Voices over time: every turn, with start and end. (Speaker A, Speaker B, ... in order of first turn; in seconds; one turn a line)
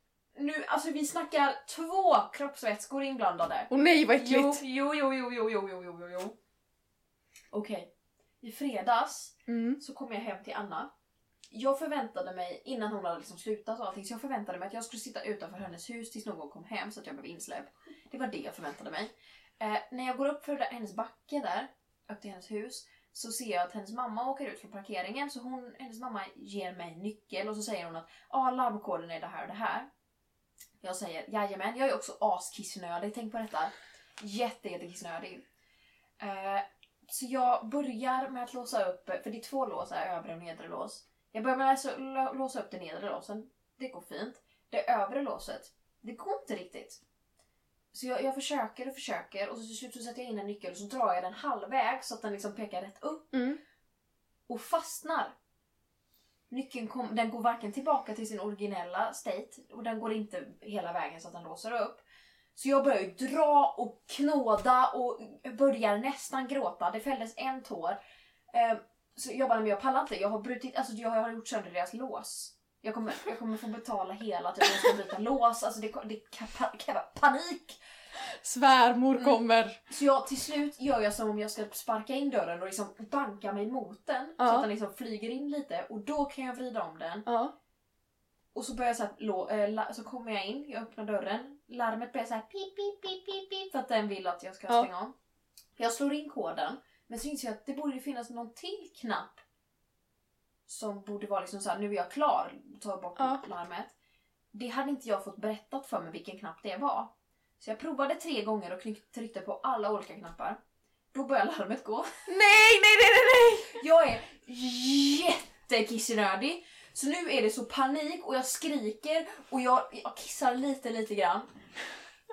Speaker A: 0.4-6.3
Speaker B: 3.7-4.6
Speaker A: 7.5-7.9
Speaker A: 8.4-10.9
Speaker B: 9.5-9.8
Speaker A: 11.5-29.9
Speaker A: 30.8-35.5
Speaker A: 36.2-47.0
Speaker A: 47.9-53.6
Speaker B: 53.3-53.6
Speaker A: 54.5-55.4
Speaker A: 56.5-62.0
Speaker A: 62.6-68.0
Speaker A: 68.5-77.8
Speaker B: 78.2-79.8
Speaker A: 79.2-87.3
Speaker B: 84.4-84.7
Speaker B: 87.3-87.5
Speaker A: 88.5-95.2
Speaker A: 95.8-99.4
Speaker A: 100.7-103.9
Speaker B: 103.2-103.4
Speaker A: 104.5-110.6
Speaker A: 111.1-112.2
Speaker B: 112.3-113.8
Speaker A: 113.7-121.5